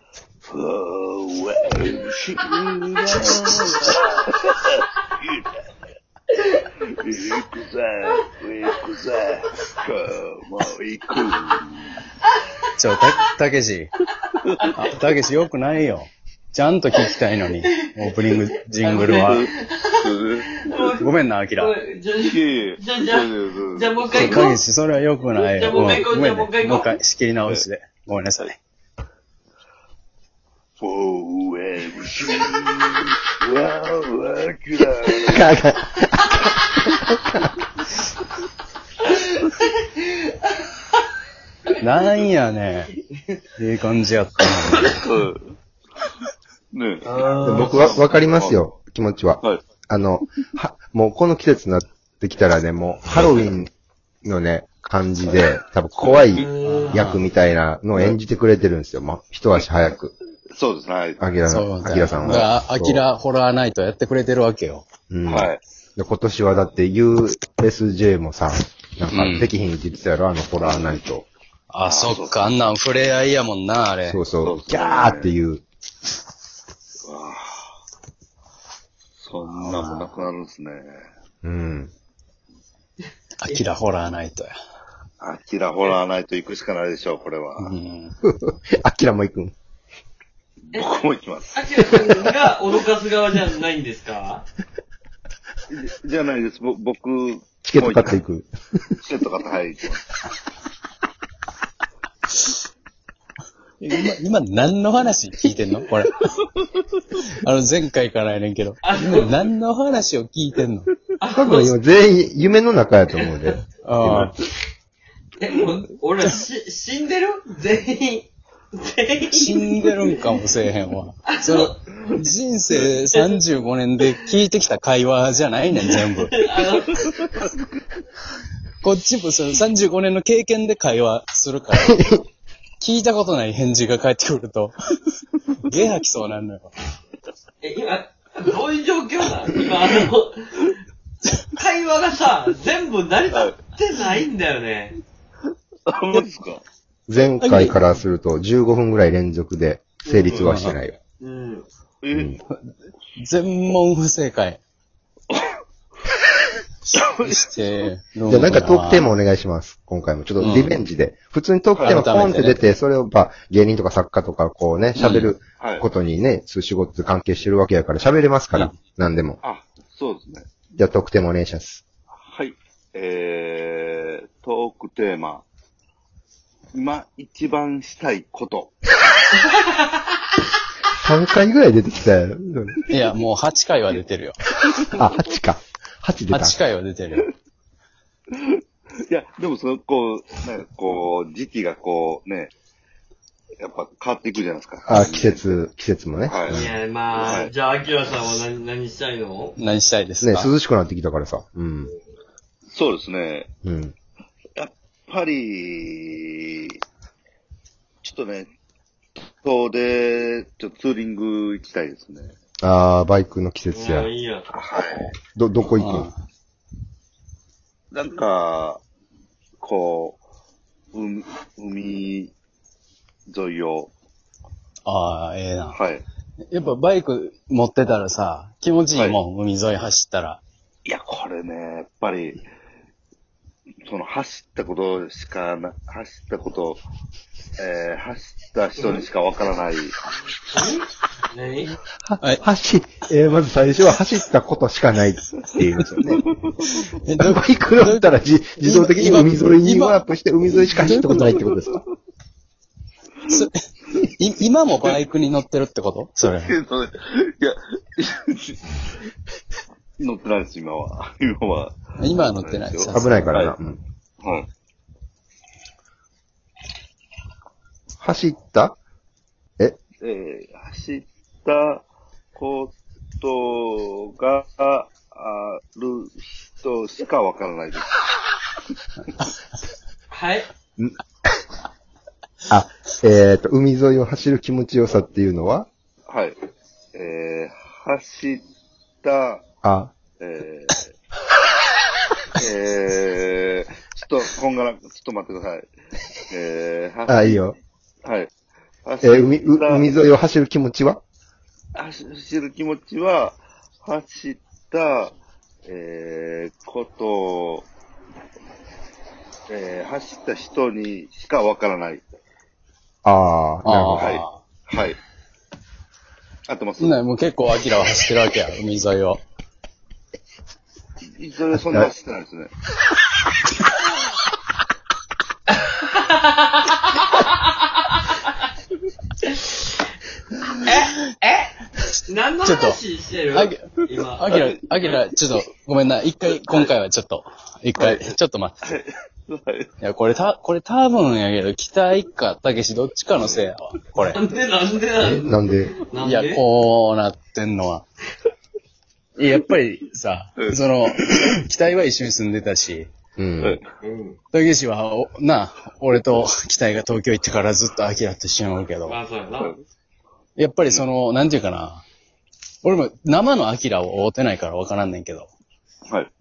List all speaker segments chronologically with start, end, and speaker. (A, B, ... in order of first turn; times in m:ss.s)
0:00.5-0:04.7 A
0:06.4-0:06.6 B
0:07.0-0:12.0 A
0:12.8-0:13.9 C
0:14.6-0:14.9 B
0:14.7-0:19.4 C
0:17.6-0:18.1 B
0:18.8-0:24.6 B
0:18.9-0:19.4 A
0:20.0-0:20.5 A
0:21.0-0:21.8 C
0:22.2-0:24.5 A
0:24.1-0:28.6 C
0:25.5-0:27.0 B
0:30.8-0:35.4 A
0:35.3-0:37.5 D
0:41.8-0:42.9 C
0:43.6-0:45.0 C
0:45.0-0:45.6 A
0:46.7-0:48.6 A
0:47.0-0:48.2 B
0:47.4-0:53.7 D
0:54.2-1:00.1 D
0:55.3-0:56.5 A
0:56.4-0:57.1 B
0:56.6-0:57.3 C
1:00.6-1:01.2 A
1:01.2-1:03.0 D
1:01.5-1:04.9 C
1:05.1-1:11.3 D
1:05.3-1:05.6 A
1:09.1-1:09.5 C
1:10.6-1:11.0 A
1:11.7-1:14.2 C
1:11.8-1:12.4 A
1:14.0-1:15.6 D
1:14.4-1:15.4 A
1:17.1-1:17.8 A
1:19.2-1:21.1 A
1:19.4-1:20.1 C
1:21.4-1:21.9 D
1:23.4-1:24.5 C
1:25.2-1:27.7 A
1:27.6-1:28.2 C
1:28.2-1:29.5 D
1:30.7-1:32.4 A
1:31.6-1:34.4 B
1:35.7-1:38.2 A
1:37.6-1:39.0 D
1:39.0-1:40.0 A
1:43.8-1:46.4 C
1:47.2-1:50.9 C
1:48.9-1:49.3 B
1:51.2-1:51.7 B
1:51.4-1:54.3 D
1:53.8-1:54.3 C
1:55.4-1:59.6 B
1:59.3-2:06.4 C
2:01.4-2:01.8 B
2:03.1-2:03.4 B
2:06.2-2:07.0 B
2:08.8-2:12.0 C
2:11.7-2:12.2 D
2:12.8-2:14.8 C
2:15.6-2:16.7 C
2:17.6-2:20.8 B
2:21.6-2:25.0 B
2:23.3-2:23.6 A
2:25.9-2:26.6 A
2:27.1-2:31.0 D
2:27.4-2:27.8 C
2:30.1-2:30.4 B
2:30.3-2:30.8 C
2:31.2-2:31.7 B
2:32.0-2:32.4 A
2:32.1-2:32.4 D
2:32.5-2:34.6 C
2:35.3-2:35.6 A
2:36.9-2:39.1 C
2:36.9-2:37.4 A
2:38.3-2:49.4 D
2:40.4-2:40.8 C
2:41.8-2:42.1 A
2:41.8-2:42.6 C
2:45.0-2:45.3 C
2:45.6-2:45.9 A
2:49.4-2:50.5 A
2:50.8-2:51.8 D
2:52.2-2:55.5 A
2:56.7-2:58.7 A
3:01.0-3:02.8 D
3:02.9-3:04.4 C
3:04.9-3:06.6 D
3:06.3-3:07.3 C
3:08.4-3:12.5 A
3:13.6-3:15.6 A
3:14.8-3:16.6 D
3:16.2-3:16.6 A
3:16.5-3:19.6 B
3:16.5-3:16.8 C
3:17.1-3:17.5 A
3:19.6-3:20.5 C
3:20.2-3:21.9 D
3:22.7-3:23.5 A
3:23.6-3:23.9 D
3:24.6-3:26.8 A
3:28.0-3:28.5 A
3:29.2-3:32.4 A
3:32.6-3:34.1 D
3:33.7-3:34.5 B
3:34.5-3:35.1 A
3:35.4-3:36.1 D
3:35.8-3:36.1 C
3:37.9-3:38.8 A
3:39.6-3:40.2 A
3:40.9-3:42.3 A
3:43.3-3:43.9 A
3:44.9-3:45.8 C
3:45.7-3:46.0 A
3:46.5-3:50.4 C
3:50.8-3:52.4 A
3:53.8-3:56.8 A
3:57.6-4:00.0 A
4:00.5-4:01.7 B
4:02.0-4:06.2 D
4:06.6-4:10.0 C
4:07.2-4:11.8 D
4:10.8-4:11.5 C
4:13.2-4:16.5 C
4:16.4-4:18.6 A
4:20.0-4:21.8 A
4:22.0-4:23.3 C
4:22.3-4:23.6 A
4:22.9-4:23.8 D
4:24.2-4:24.5 A
4:28.0-4:28.8 D
4:30.0-4:38.0 A
4:40.1-4:40.5 B
4:42.5-4:45.7 D
4:46.1-4:46.4 A
4:47.0-4:48.4 A
4:49.0-4:49.4 A
4:49.6-4:49.9 D
4:50.2-4:50.9 A
4:52.4-4:55.7 A
4:56.3-4:57.4 A
4:57.1-4:57.6 D
4:58.0-4:58.3 A
4:58.9-4:59.9 A
4:59.0-5:01.0 D
5:01.8-5:05.1 A
5:05.6-5:07.7 A
5:09.5-5:12.1 A
5:13.0-5:14.2 D
5:13.6-5:14.4 C
5:14.0-5:15.0 A
5:16.5-5:17.0 A
5:16.8-5:19.2 C
5:21.2-5:22.5 A
5:25.9-5:27.3 B
5:30.7-5:31.5 B
5:32.1-5:34.4 B
5:32.4-5:32.8 C
5:33.3-5:33.6 C
5:34.2-5:38.8 C
5:37.8-5:39.7 A
5:39.8-5:44.2 C
5:43.2-5:43.5 A
5:44.0-5:46.4 B
5:45.0-5:45.7 D
5:46.0-5:47.9 C
5:49.2-5:52.9 C
5:50.4-5:51.2 A
5:53.2-5:53.6 D
5:53.4-5:53.6 A
5:53.8-5:54.2 B
5:54.3-5:59.0 C
5:58.9-5:59.5 B
6:00.4-6:01.8 C
6:02.6-6:05.3 C